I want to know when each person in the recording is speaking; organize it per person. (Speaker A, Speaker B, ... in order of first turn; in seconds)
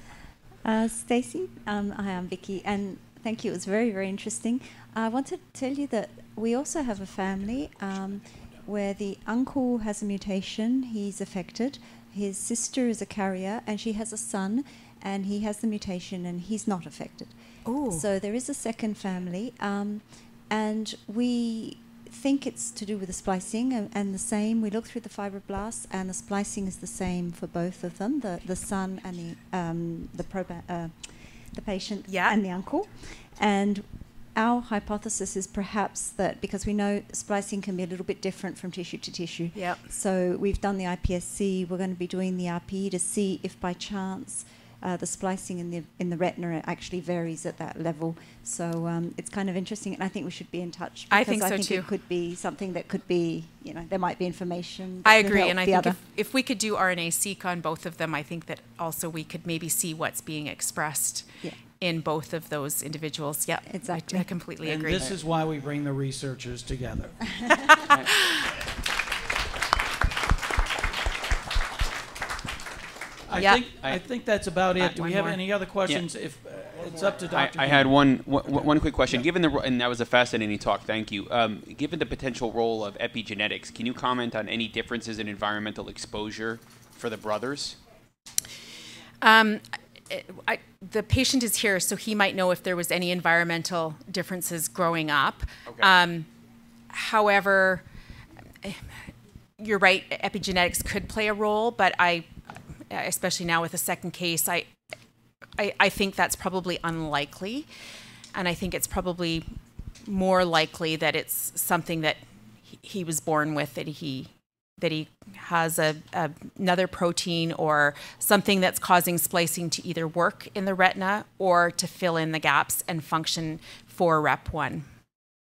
Speaker A: 0.6-17.3, 17.9-56.0, 63.7-64.3
Speaker B: 17.6-18.1, 32.1-32.4, 39.5-39.9, 51.1-51.9, 55.0-65.2, 73.3-73.6, 89.2-96.3, 96.9-97.8, 99.6-102.3, 102.9-104.7, 105.6-107.7, 108.3-109.5, 110.0-124.8
Speaker C: 64.6-67.2, 73.2-79.2
Speaker D: 73.7-74.0, 74.8-76.1, 77.3-87.8, 95.7-95.9